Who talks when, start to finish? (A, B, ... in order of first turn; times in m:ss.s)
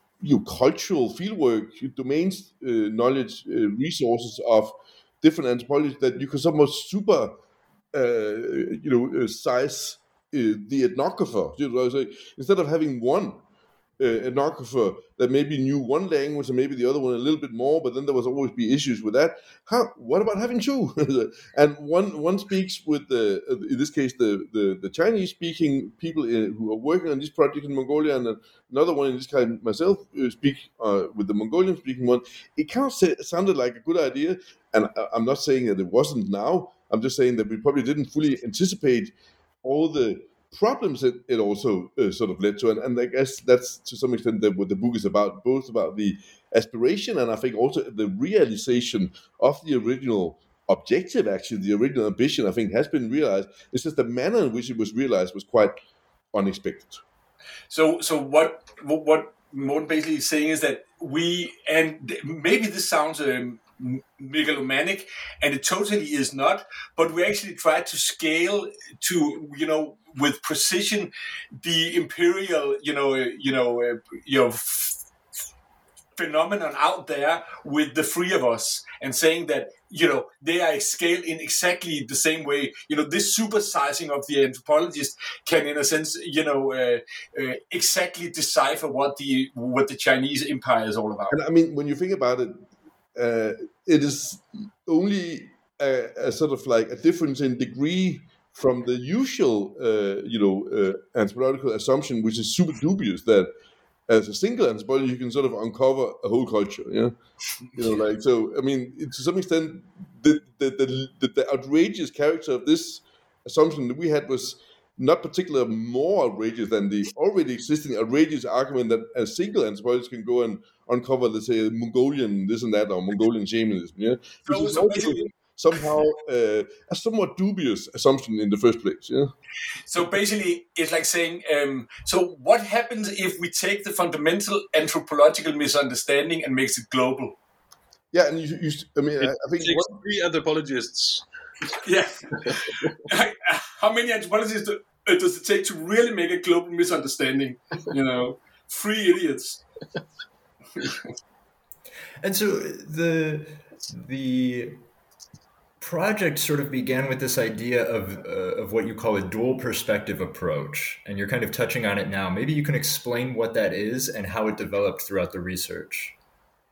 0:00.2-0:07.4 A
0:07.9-0:13.4 A
0:14.0-0:55.8 A
0:56.3-0:57.0 A
0:57.7-1:15.0 B
1:16.2-1:31.4 B
1:31.3-1:32.6 A
1:33.2-1:43.5 A
1:44.1-1:47.1 A
1:47.7-2:09.3 A
2:04.5-2:05.3 B
2:09.9-2:17.4 B
2:18.1-2:20.0 A
2:19.2-2:21.2 C
2:21.8-2:29.6 B
2:32.2-2:34.8 D
2:35.8-2:46.1 D